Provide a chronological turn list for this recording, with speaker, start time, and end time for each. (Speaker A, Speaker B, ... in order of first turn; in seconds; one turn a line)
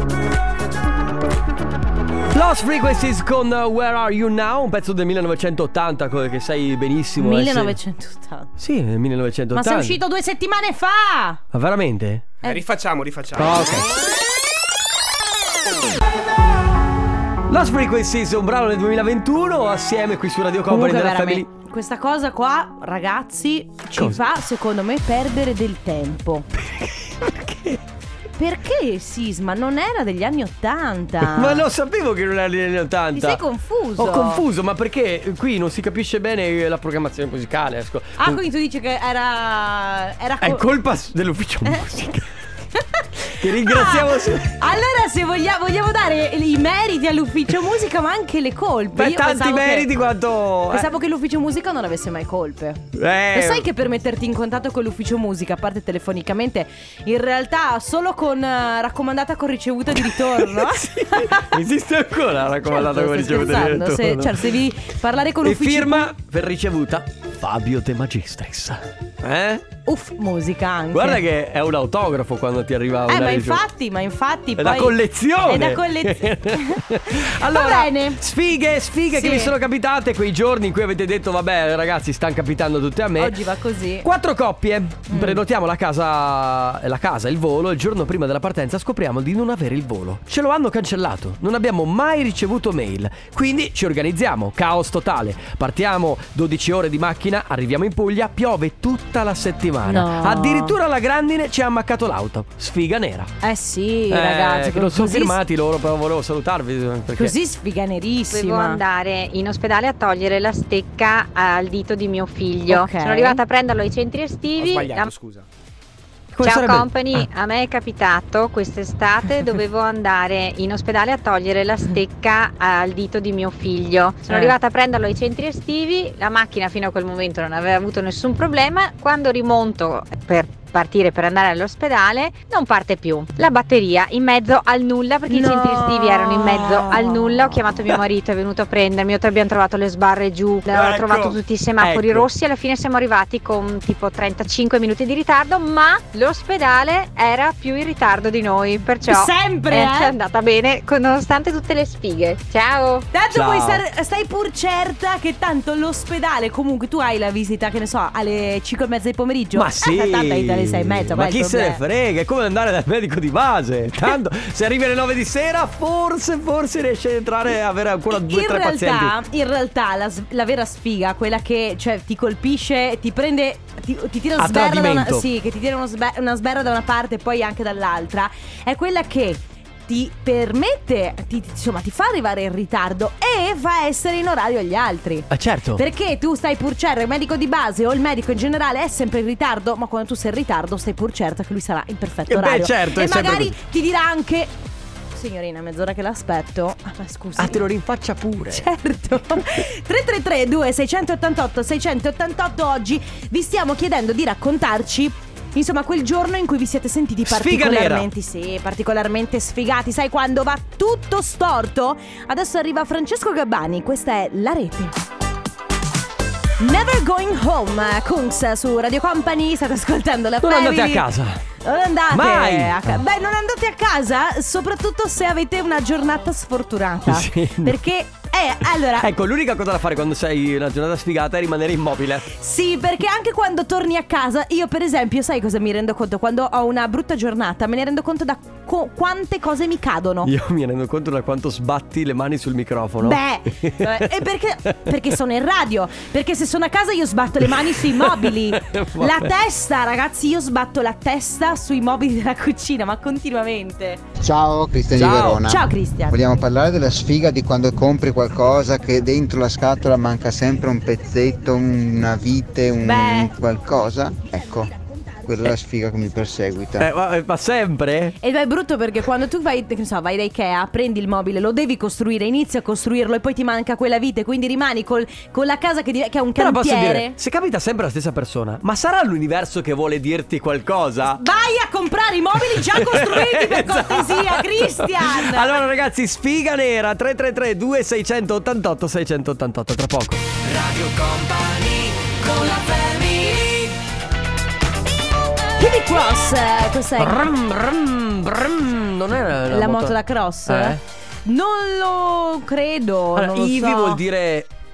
Speaker A: 2.3-7.8
Speaker B: 7.2-8.5
Speaker A: 8.6-10.0
Speaker B: 9.5-11.4
Speaker A: 11.5-12.3
Speaker C: 12.4-13.8
Speaker A: 13.4-13.9
Speaker A: 17.5-21.5
Speaker B: 20.7-26.5
Speaker A: 26.5-27.8
Speaker B: 28.4-31.7
Speaker A: 31.2-33.4
Speaker B: 33.1-34.4
Speaker A: 34.0-38.4
Speaker B: 38.2-40.6
Speaker A: 40.4-42.3
Speaker B: 42.8-49.9
Speaker A: 43.4-44.5
Speaker A: 48.9-50.9
Speaker B: 50.7-61.5
Speaker A: 53.0-53.7
Speaker A: 60.0-64.5
Speaker B: 62.7-66.1
Speaker A: 65.4-69.7
Speaker B: 69.9-71.2
Speaker A: 70.9-73.6
Speaker B: 73.1-78.2
Speaker A: 74.6-83.4
Speaker B: 79.1-79.5
Speaker B: 83.2-84.1
Speaker A: 84.0-103.3
Speaker B: 85.1-85.4
Speaker B: 99.8-100.8
Speaker B: 103.4-105.4
Speaker A: 104.1-107.3
Speaker B: 107.2-108.8
Speaker D: 108.3-115.1
Speaker B: 112.7-113.4
Speaker C: 114.6-115.5
Speaker A: 116.3-117.3
Speaker D: 116.4-153.1
Speaker B: 135.3-137.7
Speaker A: 140.7-142.3
Speaker B: 149.1-150.1
Speaker B: 153.1-161.8
Speaker A: 153.3-153.8
Speaker A: 159.5-169.2
Speaker B: 168.1-194.5
Speaker A: 174.4-175.3
Speaker A: 185.3-185.8
Speaker A: 192.3-193.6
Speaker B: 195.1-197.6
Speaker A: 197.4-198.7
Speaker B: 198.5-214.9
Speaker A: 207.3-208.1
Speaker B: 216.6-221.1
Speaker A: 220.4-221.4
Speaker B: 221.6-229.1
Speaker A: 222.1-223.0
Speaker A: 227.1-227.8
Speaker A: 229.0-232.3
Speaker B: 232.4-240.3
Speaker A: 240.2-245.1
Speaker B: 243.0-254.0
Speaker A: 247.4-249.3
Speaker E: 254.2-264.7
Speaker A: 254.9-255.5
Speaker B: 255.4-256.2
Speaker B: 262.8-263.3
Speaker E: 265.2-266.9
Speaker A: 266.8-268.2
Speaker B: 268.2-277.1
Speaker A: 276.4-281.2
Speaker B: 281.1-285.6
Speaker A: 282.5-293.8
Speaker B: 295.6-297.3
Speaker A: 297.0-300.8
Speaker B: 299.5-304.0
Speaker A: 303.1-304.5